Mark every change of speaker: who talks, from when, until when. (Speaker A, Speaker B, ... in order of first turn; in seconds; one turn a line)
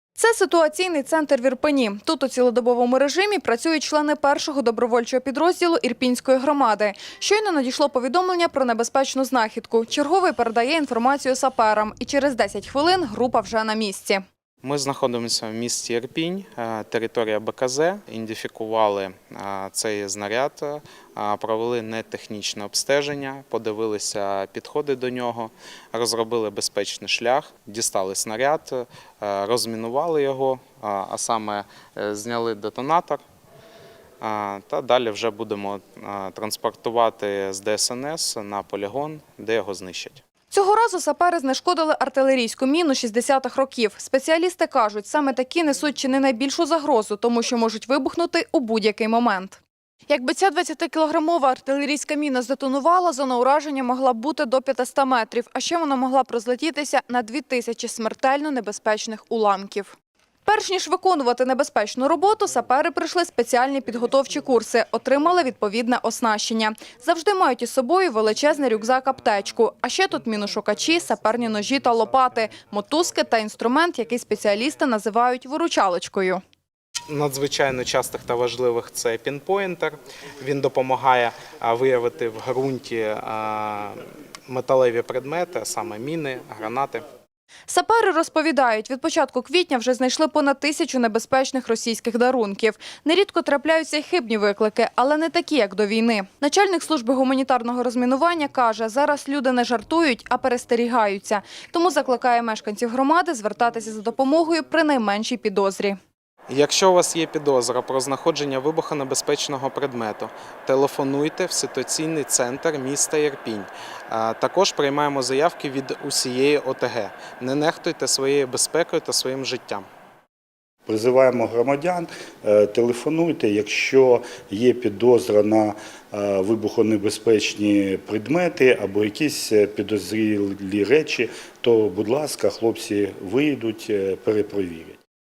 Speaker A: 0.2-14.2
Speaker B: 14.6-33.2
Speaker B: 34.2-40.2
Speaker A: 40.5-76.4
Speaker B: 77.1-87.0
Speaker A: 87.7-106.0
Speaker B: 106.5-119.8
Speaker C: 120.8-135.0